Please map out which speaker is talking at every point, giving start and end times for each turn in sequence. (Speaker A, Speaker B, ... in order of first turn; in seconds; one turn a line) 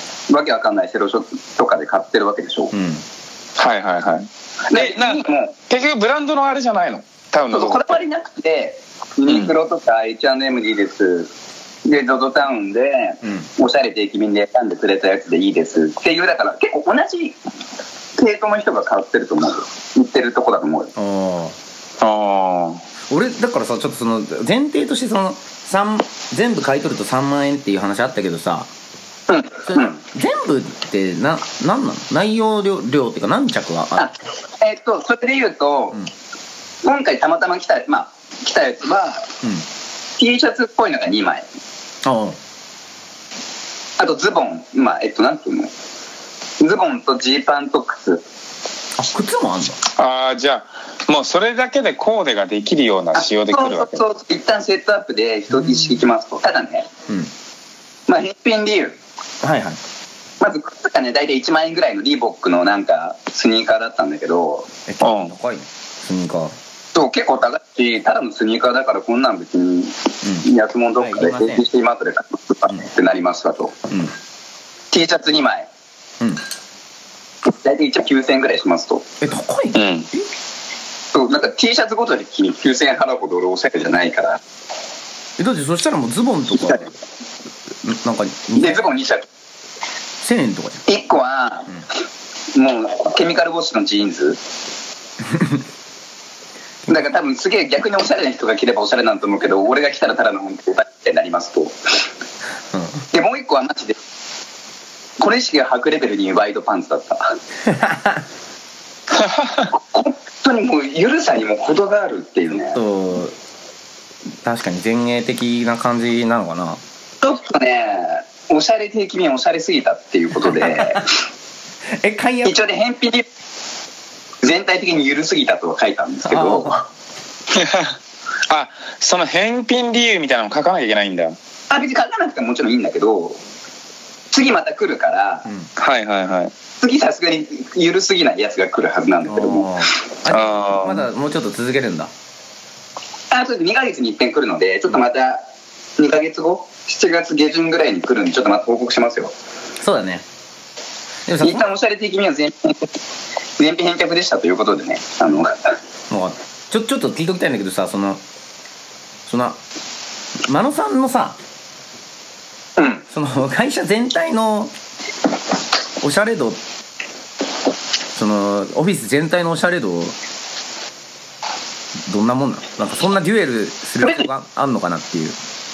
Speaker A: 0.3-2.7
Speaker B: 2.7-3.0
Speaker C: 3.6-7.9
Speaker A: 4.7-5.5
Speaker A: 7.5-11.3
Speaker C: 9.3-9.5
Speaker A: 11.9-17.4
Speaker B: 13.2-13.5
Speaker A: 18.2-20.9
Speaker B: 21.0-21.6
Speaker C: 22.0-22.8
Speaker B: 23.1-28.7
Speaker A: 29.3-30.0
Speaker B: 29.7-34.1
Speaker A: 34.0-36.0
Speaker A: 36.8-39.3
Speaker A: 40.2-41.5
Speaker B: 42.0-42.4
Speaker A: 44.0-45.7
Speaker A: 46.6-48.2
Speaker B: 49.0-49.8
Speaker C: 50.0-54.0
Speaker A: 53.2-56.9
Speaker B: 55.6-55.9
Speaker A: 58.1-59.0
Speaker B: 59.4-59.8
Speaker A: 60.4-64.7
Speaker B: 64.9-66.5
Speaker C: 65.0-65.3
Speaker A: 66.9-73.8
Speaker B: 71.0-71.7
Speaker A: 74.9-75.7
Speaker A: 77.4-79.1
Speaker B: 79.2-80.2
Speaker C: 79.8-80.1
Speaker A: 81.1-84.4
Speaker B: 85.4-86.9
Speaker B: 87.8-88.9
Speaker A: 88.6-89.2
Speaker B: 90.2-90.8
Speaker A: 90.9-91.7
Speaker A: 92.5-94.4
Speaker A: 96.9-101.8
Speaker B: 102.7-103.0
Speaker A: 103.1-104.0
Speaker A: 105.2-107.4
Speaker B: 107.7-108.2
Speaker C: 109.2-109.7
Speaker A: 109.7-112.8
Speaker B: 112.7-113.3
Speaker B: 114.4-116.8
Speaker A: 117.2-121.1
Speaker B: 120.5-121.0
Speaker B: 122.0-122.6
Speaker A: 122.4-123.2
Speaker A: 124.4-126.8
Speaker B: 126.2-126.8
Speaker C: 127.5-128.0
Speaker C: 128.5-131.4
Speaker A: 131.7-133.4
Speaker A: 134.3-135.5
Speaker C: 135.8-136.5
Speaker A: 136.8-139.9
Speaker B: 139.3-142.1
Speaker C: 140.3-141.1
Speaker A: 143.3-145.4
Speaker A: 146.0-149.3
Speaker B: 149.8-150.2
Speaker B: 151.3-151.7
Speaker A: 151.4-152.9
Speaker A: 153.6-155.7
Speaker B: 156.1-158.2
Speaker B: 159.3-159.6
Speaker B: 160.4-161.4
Speaker A: 162.8-163.0
Speaker B: 163.1-164.7
Speaker B: 166.0-166.6
Speaker B: 168.1-170.2
Speaker B: 172.1-175.4